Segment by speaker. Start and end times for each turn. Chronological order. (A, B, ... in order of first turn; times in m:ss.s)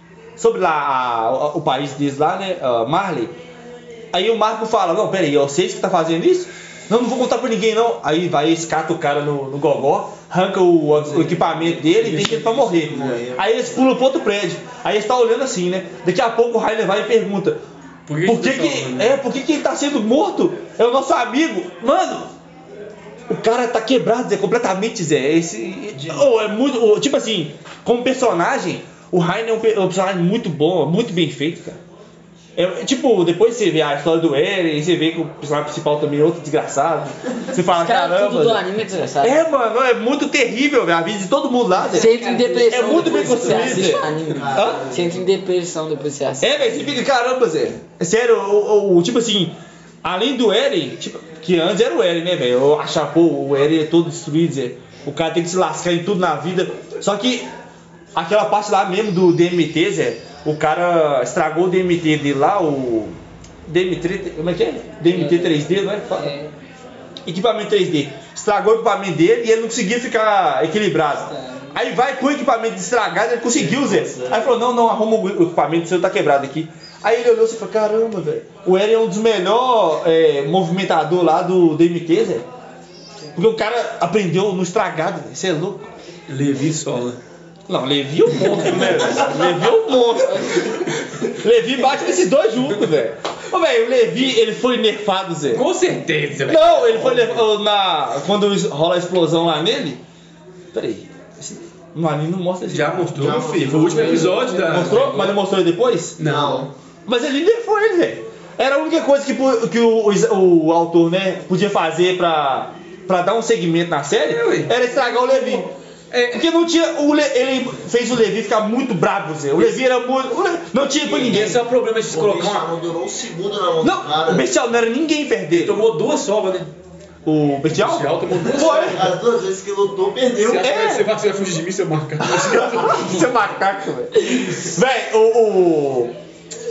0:00.4-0:03.4 A
0:04.1-0:17.6 A
0:11.0-0:13.7 B
0:11.4-0:13.2 C
0:18.1-0:19.2 C
0:18.2-0:22.3 A
0:23.3-0:31.8 A
0:32.6-0:38.7 A
0:37.7-0:39.4 D
0:39.2-0:42.1 A
0:41.8-0:43.8 E
0:41.9-0:46.9 D
0:42.7-0:44.8 A
0:43.8-0:45.3 B
0:46.4-0:57.5 A
0:58.2-1:06.3 A
1:05.1-1:06.5 E
1:07.3-1:22.5 A
1:11.2-1:11.8 E
1:13.5-1:14.6 B
1:23.4-1:25.9 A
1:26.3-1:27.2 C
1:27.7-1:30.7 A
1:28.4-1:29.2 C
1:30.6-1:30.8 B
1:31.4-1:35.6 A
1:35.5-1:37.4 C
1:36.5-1:40.0 A
1:40.7-1:43.4 A
1:42.7-1:45.4 C
1:43.2-1:44.5 B
1:44.4-1:46.2 A
1:46.2-1:46.7 C
1:46.2-1:46.7 B
1:47.1-1:55.7 A
1:54.2-1:56.4 C
1:56.3-2:01.6 A
1:59.6-1:59.8 C
2:01.0-2:02.7 C
2:01.3-2:01.5 B
2:02.1-2:04.5 B
2:03.8-2:05.8 A
2:05.5-2:06.7 C
2:07.2-2:09.1 A
2:07.7-2:09.1 C
2:08.4-2:10.7 B
2:10.4-2:13.3 C
2:10.6-2:11.1 A
2:12.2-2:16.2 A